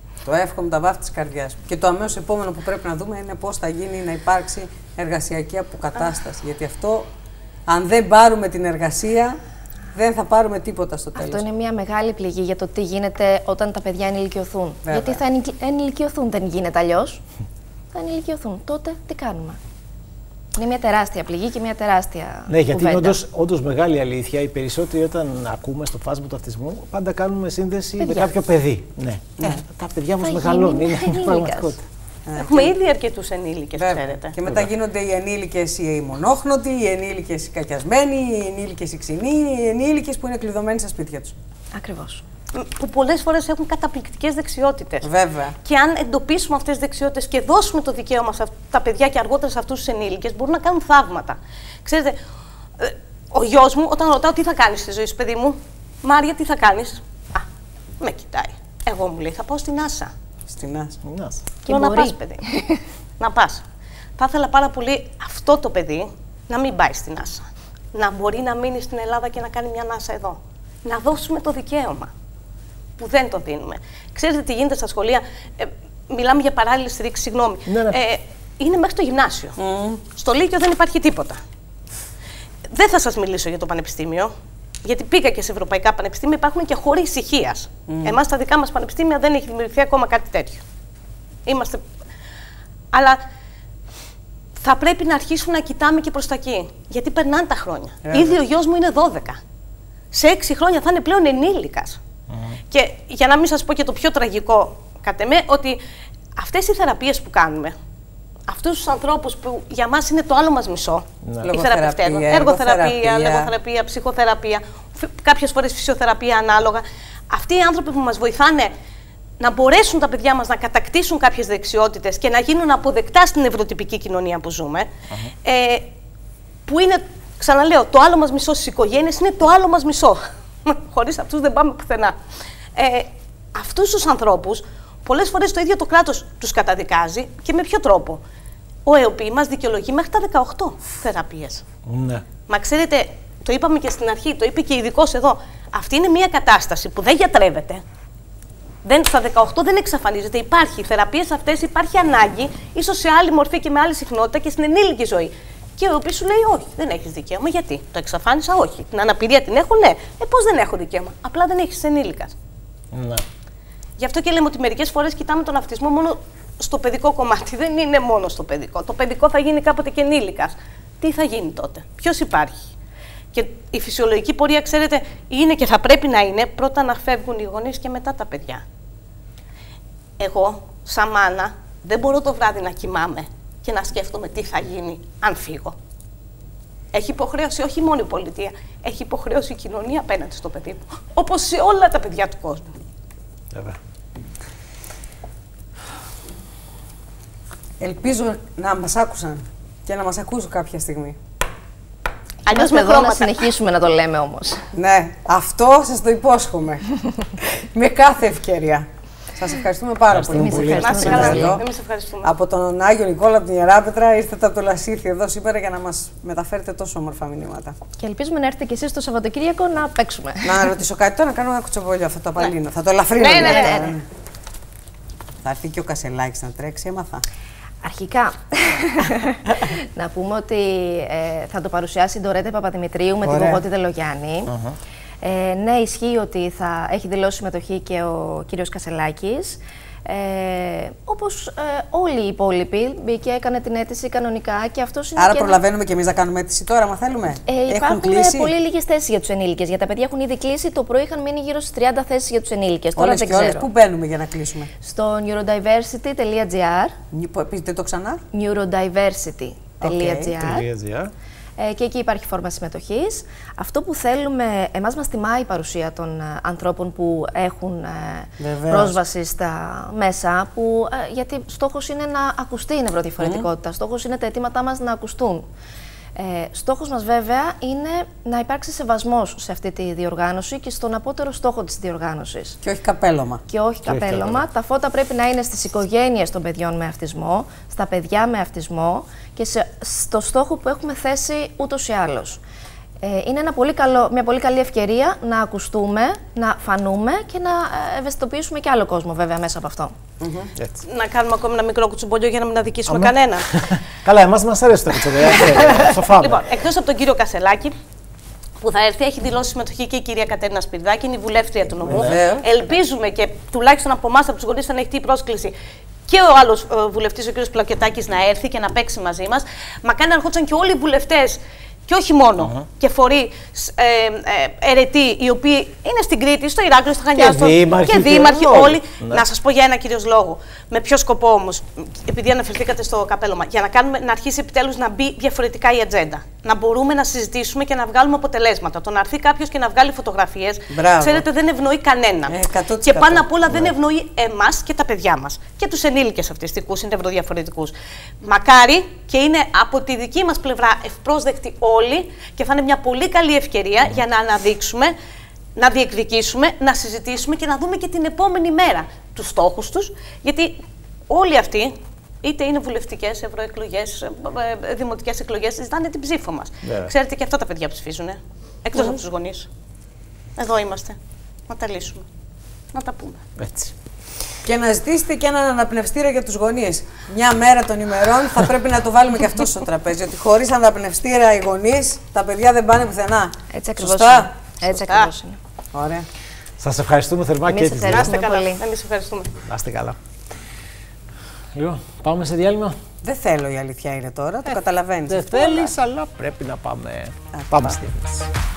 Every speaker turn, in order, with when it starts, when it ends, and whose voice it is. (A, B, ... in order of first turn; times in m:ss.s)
0:00.2-0:07.1 A
0:07.7-0:09.4 A
0:09.9-0:11.4 A
0:11.2-0:17.2 B
0:14.9-0:15.2 A
0:17.9-0:19.6 B
0:20.6-0:23.2 B
0:22.5-0:31.8 C
0:28.0-0:28.3 B
0:30.2-0:31.8 B
0:32.3-0:32.7 A
0:32.4-0:34.3 D
0:33.8-0:41.4 A
0:41.7-0:42.2 B
0:42.5-0:45.1 D
0:45.0-0:45.6 A
0:45.6-0:52.2 D
0:52.8-0:57.5 D
0:58.0-1:00.1 D
1:00.5-1:01.0 A
1:01.0-1:01.4 C
1:01.6-1:02.8 B
1:01.7-1:02.5 D
1:03.2-1:03.6 D
1:04.2-1:12.1 D
1:13.0-1:19.6 D
1:17.7-1:18.0 C
1:19.6-1:20.0 A
1:20.1-1:21.4 D
1:22.7-1:24.3 D
1:24.8-1:30.6 D
1:27.9-1:28.2 A
1:31.5-1:31.8 D
1:32.9-1:33.2 D
1:34.6-1:39.4 D
1:38.1-1:38.4 A
1:40.1-1:42.0 D
1:42.3-1:42.6 C
1:42.7-1:45.8 D
1:46.4-1:47.8 D
1:48.5-1:58.7 D
1:51.2-1:51.5 C
1:51.4-1:53.5 A
1:59.4-2:04.9 D
2:05.4-2:05.9 D
2:06.6-2:12.2 D
2:12.8-2:18.2 D
2:18.9-2:21.6 D
2:21.9-2:22.3 C
2:22.5-2:27.8 D
2:28.8-2:42.3 D
2:42.9-2:43.2 C
2:44.0-2:52.6 D
2:53.3-2:58.6 D
3:00.2-3:05.8 D
3:06.9-3:12.7 D
3:13.5-3:13.8 C
3:17.8-3:21.2 A
3:22.5-3:23.4 D
3:22.5-3:24.6 B
3:24.7-3:26.9 A
3:27.4-3:31.7 A
3:30.1-3:31.6 C
3:30.4-3:31.5 B
3:30.6-3:32.3 D
3:32.2-3:37.8 A
3:38.0-3:40.6 B
3:40.4-3:44.0 A
3:43.2-3:43.9 D
3:43.4-3:43.9 B
3:45.4-3:47.2 A
3:47.8-3:54.5 B
3:53.2-3:53.6 A
3:54.5-3:54.8 C
3:55.2-4:05.6 B
4:05.2-4:08.5 A
4:07.5-4:13.7 B
4:13.0-4:14.7 A
4:14.8-4:17.0 B
4:17.1-4:18.2 A
4:18.3-4:20.6 B
4:19.8-4:20.4 A
4:20.4-4:21.1 C
4:21.6-4:35.5 B
4:28.4-4:29.0 A
4:33.2-4:33.5 A
4:36.2-4:42.6 B
4:42.6-4:43.4 A
4:43.5-4:52.4 B
4:43.9-4:44.4 C
4:53.0-4:59.9 B
5:00.2-5:00.5 A
5:00.6-5:00.8 C
5:00.8-5:03.5 D
5:02.9-5:06.4 C
5:05.3-5:07.8 D
5:08.6-5:15.6 D
5:11.9-5:12.4 A
5:11.9-5:12.2 C
5:16.1-5:54.9 D
5:27.2-5:29.2 C
5:40.7-5:41.2 A
5:42.3-5:43.3 A
5:55.6-6:09.5 D
6:06.6-6:06.9 C
6:10.4-6:11.0 D
6:11.5-6:12.1 D
6:12.7-6:13.2 D
6:13.4-6:13.7 C
6:14.4-6:24.3 A
6:23.5-6:25.4 B
6:24.8-6:25.1 D
6:25.7-6:26.1 A
6:26.6-6:28.1 C
6:27.4-6:28.6 B
6:27.8-6:29.4 D
6:29.5-6:30.0 C
6:31.5-6:32.8 C
6:33.0-6:35.5 A
6:35.1-6:38.3 C
6:37.4-6:37.8 A